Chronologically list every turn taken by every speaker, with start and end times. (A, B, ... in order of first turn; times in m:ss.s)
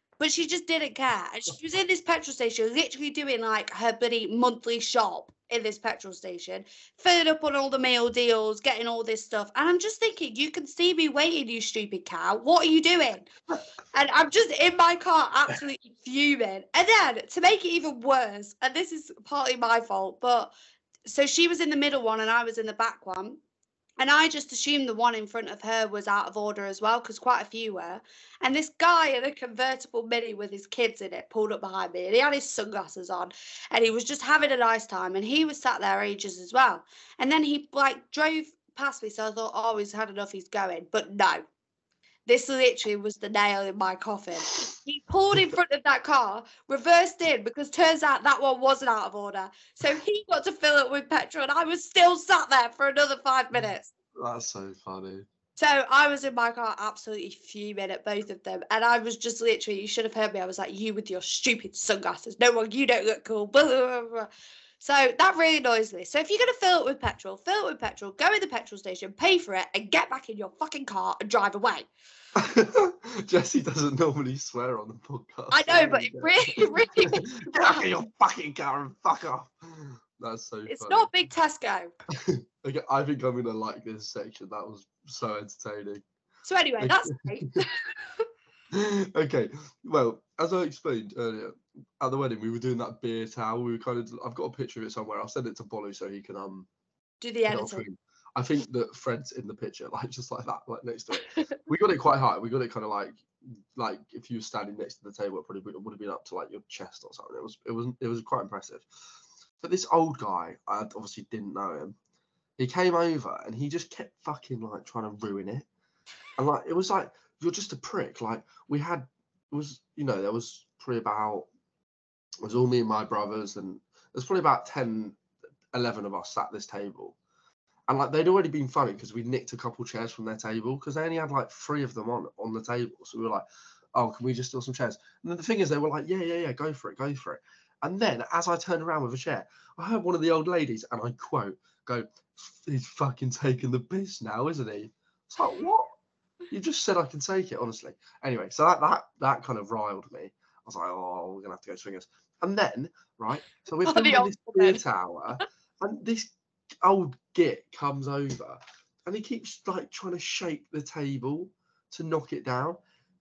0:00.2-0:13.3 A
0:13.9-0:20.5 A
0:21.0-0:23.4 A
0:24.0-0:41.4 A
0:42.3-0:53.9 A
0:54.2-0:55.3 B
0:55.6-1:04.3 A
1:04.8-1:11.9 A
1:12.4-1:21.1 B
1:15.5-1:17.8 A
1:20.7-1:21.9 A
1:22.2-1:26.0 B
1:26.5-1:28.2 A
1:26.8-1:27.3 B
1:28.7-1:36.7 B
1:37.2-1:37.8 A
1:37.5-1:48.9 B
1:41.2-1:41.6 A
1:49.6-1:52.0 B
1:52.6-1:55.7 B
1:56.4-2:01.5 B
2:02.4-2:05.2 B
2:05.7-2:07.2 B
2:07.9-2:13.4 B
2:14.0-2:25.9 B
2:26.5-2:42.8 B
2:33.8-2:34.8 A